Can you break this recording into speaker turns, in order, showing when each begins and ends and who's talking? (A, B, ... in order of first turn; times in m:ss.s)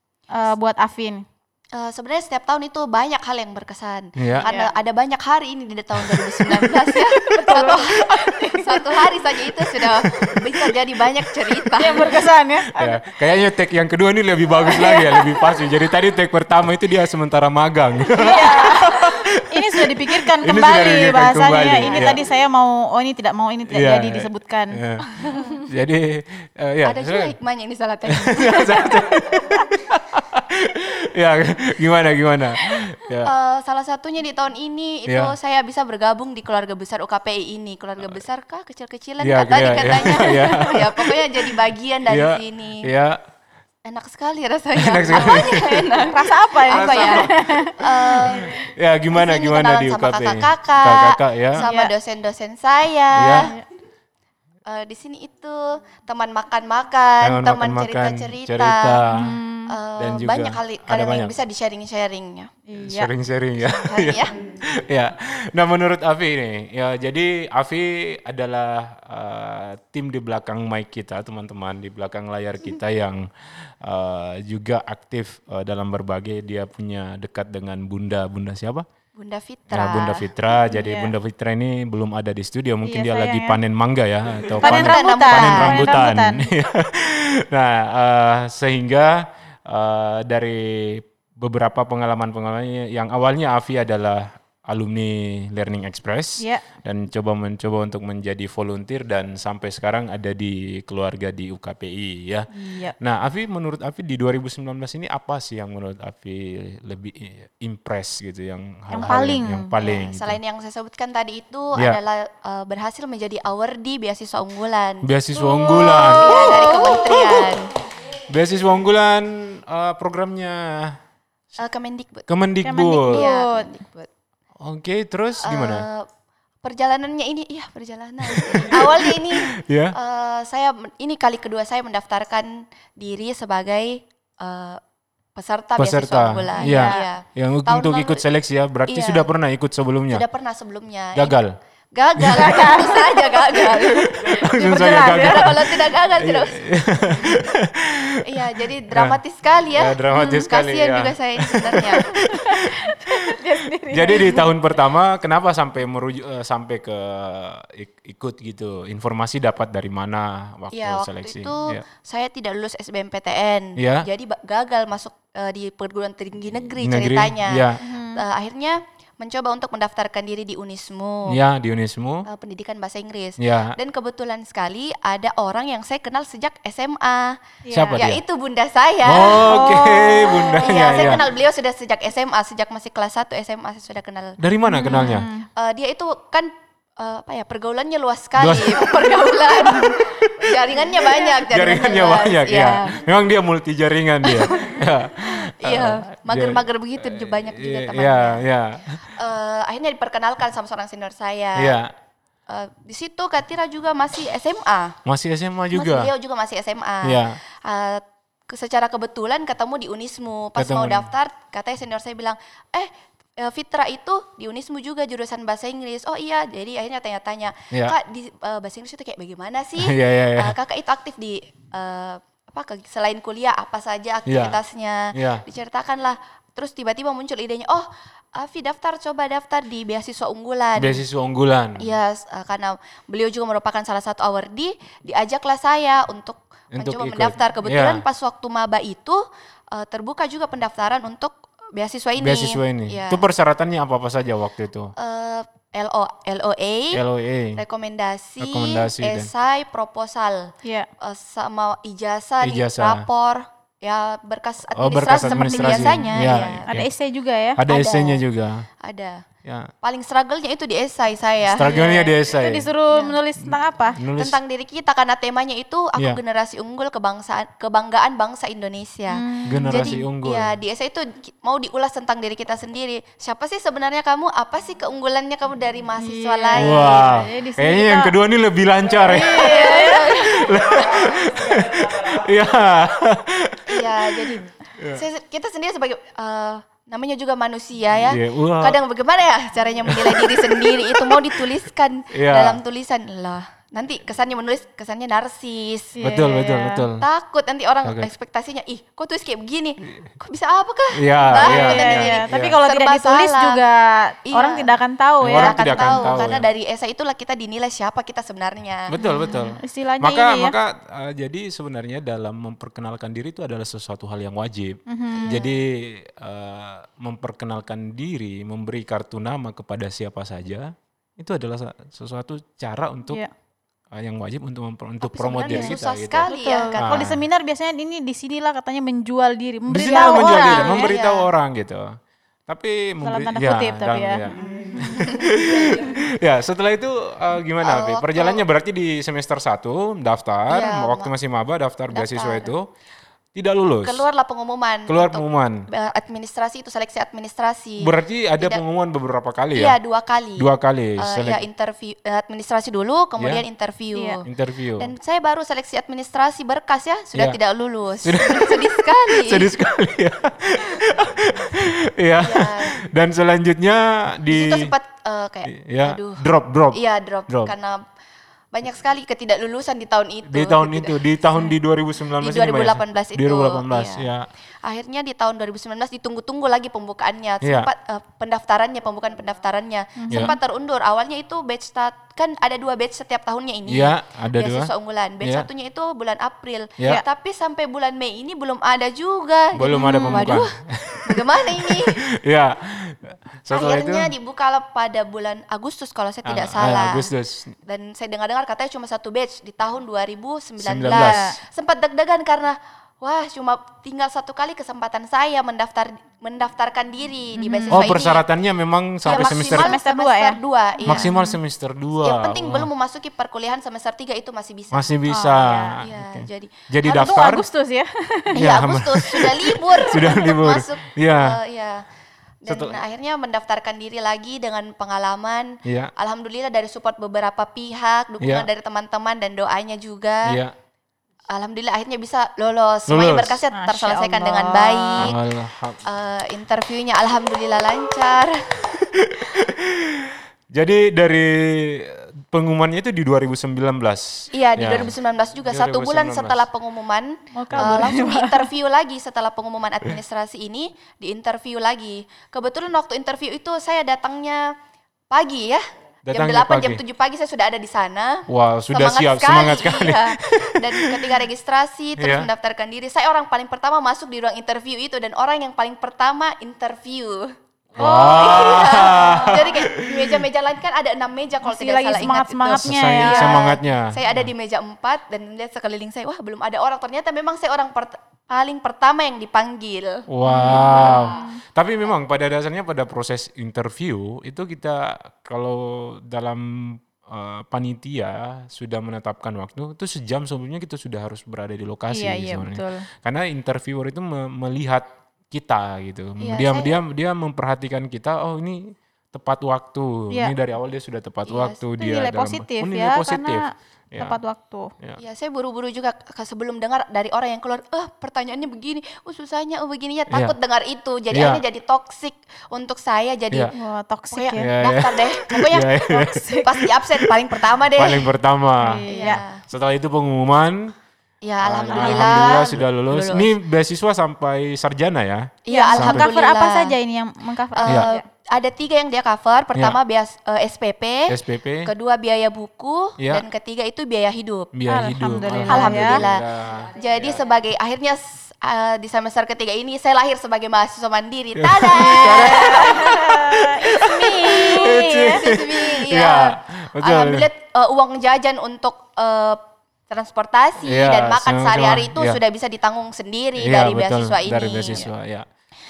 0:00.3-0:01.2 A
0:01.7-0:12.2 B
0:04.2-0:04.4 C
0:04.4-0:04.7 A
0:06.0-0:07.8 C
0:07.3-0:08.8 A
0:09.8-0:10.6 C
0:11.3-0:11.6 C
0:11.8-0:13.0 A
0:12.8-0:22.2 C
0:14.7-0:15.2 A
0:18.2-0:18.9 A
0:19.5-0:24.8 A
0:23.7-0:27.4 C
0:26.8-0:29.1 B
0:28.1-0:33.3 C
0:33.2-0:42.9 B
0:35.1-0:35.4 C
0:39.2-0:41.5 C
0:42.1-0:43.2 C
0:43.9-0:48.6 B
0:44.8-0:46.0 C
0:45.2-0:45.5 A
0:46.0-0:47.8 A
0:46.9-0:47.2 C
0:48.3-0:51.6 C
0:49.1-0:53.5 B
0:51.6-0:51.9 A
0:53.1-0:53.5 C
0:53.3-0:53.6 A
0:54.7-0:59.0 B
0:57.2-0:59.4 C
0:59.1-0:59.7 A
0:59.7-1:02.5 B
1:00.0-1:01.4 C
1:02.7-1:03.1 A
1:02.8-1:18.9 C
1:03.7-1:04.3 B
1:19.2-1:20.3 B
1:19.7-1:50.4 C
1:20.7-1:21.1 A
1:22.8-1:23.6 A
1:24.6-1:26.0 B
1:24.6-1:26.5 A
1:42.5-1:43.0 A
1:48.9-1:49.7 A
1:49.8-1:55.1 B
1:55.0-1:57.2 C
1:55.4-1:57.4 A
1:56.1-1:57.7 B
1:58.3-2:01.0 C
2:01.6-2:02.3 B
2:02.3-2:03.2 C
2:02.6-2:03.8 A
2:03.1-2:03.8 B
2:04.6-2:05.9 C
2:05.4-2:06.1 B
2:06.6-2:14.8 B
2:08.2-2:10.0 C
2:15.4-2:18.2 B
2:15.8-2:20.2 C
2:16.6-2:17.1 A
2:18.9-2:19.3 B
2:20.1-2:21.4 B
2:21.2-2:21.6 C
2:21.9-2:26.6 B
2:22.2-2:22.7 C
2:22.3-2:25.5 A
2:23.8-2:29.2 C
2:28.2-2:32.1 B
2:29.7-2:33.3 C
2:32.3-2:34.5 A
2:33.9-2:41.8 C
2:40.7-2:51.4 B
2:43.8-2:44.1 C
2:46.8-2:47.8 C
2:47.8-2:48.2 A
2:51.3-2:52.3 C
2:52.3-2:57.4 B
2:53.4-2:53.8 C
2:57.6-2:58.0 A
2:57.7-2:58.2 C
2:57.9-3:04.4 B
2:59.0-3:01.2 C
2:59.4-2:59.9 A
3:04.4-3:05.3 C
3:04.7-3:05.5 A
3:04.9-3:13.0 B
3:08.4-3:10.5 C
3:11.2-3:19.0 C
3:14.3-3:14.7 B
3:15.5-3:18.5 B
3:19.2-3:21.8 B
3:21.6-3:21.9 C
3:22.5-3:25.0 B
3:25.0-3:26.1 C
3:25.7-3:51.0 B
3:27.0-3:27.4 C
3:30.6-3:31.1 C
3:37.7-3:38.0 C
3:39.8-3:40.6 C
3:44.3-3:44.6 C
3:45.1-3:45.4 C
3:50.8-3:52.0 C
3:51.8-4:03.2 B
3:56.8-3:58.0 C
4:02.2-4:04.9 C
4:05.0-4:07.0 B
4:06.9-4:07.6 C
4:07.6-4:16.7 B
4:08.4-4:09.3 C
4:12.4-4:13.1 C
4:14.8-4:16.9 C
4:15.2-4:17.6 A
4:17.6-4:18.7 C
4:17.7-4:18.2 B
4:18.8-4:19.2 B
4:19.4-4:19.7 C
4:19.8-4:21.7 B
4:21.4-4:22.7 C
4:21.7-4:24.0 A
4:22.9-4:23.2 B
4:23.4-4:24.4 C
4:24.2-4:37.2 B
4:29.1-4:29.9 A
4:29.5-4:30.5 C
4:36.0-4:38.2 A
4:36.6-4:45.0 C
4:39.1-4:40.2 A
4:39.2-4:40.5 B
4:43.7-4:56.0 B
4:48.1-4:48.8 C
4:49.9-4:51.5 C
4:52.1-4:52.6 C
4:56.0-4:56.9 A
4:56.0-4:57.1 C
4:57.0-5:03.6 B
4:57.8-4:58.1 C
5:00.9-5:02.6 C
5:01.4-5:06.2 A
5:04.3-5:09.0 B
5:05.2-5:06.5 C
5:08.9-5:23.2 C
5:09.0-5:10.5 A
5:14.9-5:15.4 A
5:15.2-5:15.6 B
5:23.9-5:27.2 C
5:25.0-5:27.1 B
5:25.5-5:25.7 A
5:26.3-5:30.9 A
5:29.7-5:42.7 C
5:30.0-5:31.3 B
5:33.0-5:35.2 A
5:37.6-5:38.4 B
5:40.5-5:41.1 B
5:41.9-5:42.5 B
5:43.4-5:44.0 C
5:43.8-5:48.6 B
5:44.9-5:45.6 C
5:47.8-5:49.8 C
5:49.6-5:54.3 B
5:50.4-5:51.4 C
5:54.0-5:54.2 A
5:54.2-5:54.9 C
5:54.8-5:59.5 B
5:58.0-6:04.7 C
6:02.2-6:02.8 B
6:04.3-6:07.8 B
6:05.5-6:07.5 C
6:08.5-6:11.0 B
6:10.3-6:14.3 C
6:12.2-6:14.1 B
6:14.6-6:30.6 B
6:17.4-6:17.7 C
6:20.0-6:20.3 A
6:23.7-6:24.7 C
6:29.5-6:34.1 C
6:29.7-6:30.4 A
6:31.1-6:32.0 B
6:33.5-6:37.1 B
6:36.2-6:37.6 C
6:37.7-6:48.2 B
6:40.6-6:41.3 C
6:40.9-6:41.3 A
6:47.4-6:48.1 A
6:47.7-6:49.7 C
6:49.0-6:51.1 B
6:49.1-6:51.4 A
6:50.9-6:52.7 C
6:52.0-6:54.9 B
6:54.7-6:57.5 C
6:55.1-6:55.8 A
6:55.8-6:57.2 B
6:56.8-6:58.3 A
6:58.4-7:01.4 C
6:58.4-7:01.8 B
7:02.4-7:10.4 B
7:02.5-7:02.8 C
7:05.6-7:05.9 C
7:08.2-7:08.5 C
7:10.3-7:10.5 C
7:11.3-7:15.2 B
7:12.9-7:13.4 C
7:13.5-7:15.1 A
7:15.0-7:15.8 C
7:15.8-7:18.5 B
7:18.9-7:26.5 C
7:24.3-7:34.5 B
7:27.3-7:28.4 A
7:27.5-7:27.9 C
7:35.1-8:01.2 B
7:36.0-7:36.8 C
7:38.3-7:41.1 C
7:42.0-7:42.3 C
7:47.8-7:50.2 C
7:47.8-7:49.0 A
7:51.5-7:53.5 A
7:52.6-7:54.3 C
8:00.1-8:24.2 C
8:00.3-8:01.4 A
8:11.9-8:12.8 A
8:16.2-8:16.8 B
8:21.3-8:21.6 B
8:21.8-8:24.7 A
8:25.0-8:33.5 B
8:30.1-8:30.4 C
8:31.1-8:31.4 C
8:33.5-8:34.5 A
8:34.1-8:38.1 B
8:34.4-8:38.8 C
8:36.0-8:36.5 A
8:38.6-8:39.2 A
8:38.8-8:39.4 B
8:39.5-8:40.7 C
8:41.2-8:43.3 B
8:41.4-8:46.1 C
8:45.5-8:46.8 B
8:45.5-8:48.0 A
8:47.6-8:54.5 B
8:51.1-8:51.7 C
8:54.5-8:57.2 C
8:54.7-8:56.0 A
8:55.4-9:03.0 B
9:01.4-9:07.3 C
9:01.8-9:05.3 A
9:04.3-9:14.9 B
9:10.6-9:12.2 C
9:13.4-9:15.3 C